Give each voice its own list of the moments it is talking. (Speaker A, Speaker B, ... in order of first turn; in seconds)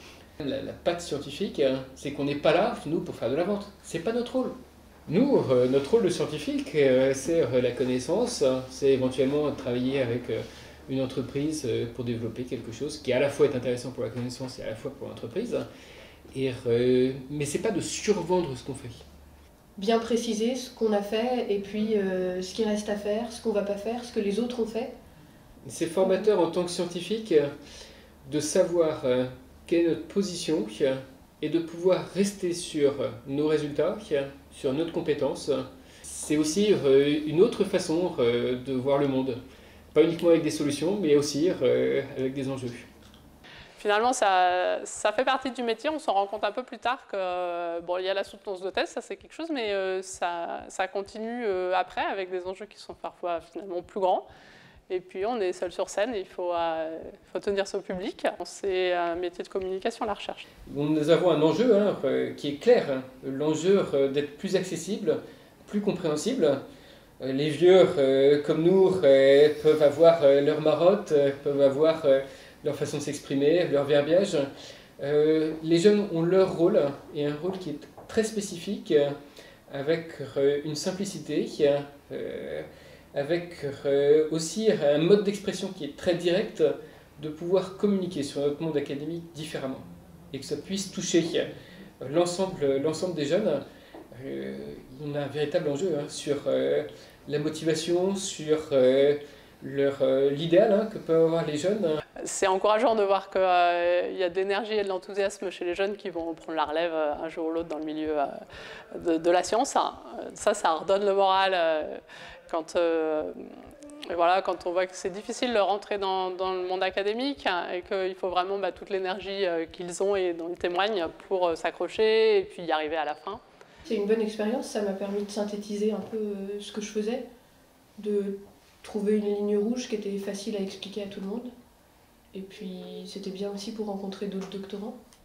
Speaker A: 0.4-15.7, 16.3-19.0, 25.6-27.5, 28.2-39.4, 39.9-42.9, 60.6-66.6, 67.2-79.2, 79.7-91.5, 92.0-102.0
Speaker B: 19.8-24.9, 123.8-127.2, 128.0-131.5, 132.3-135.0
Speaker C: 43.8-54.2, 54.9-60.4, 102.2-108.3, 108.9-113.5, 114.1-123.4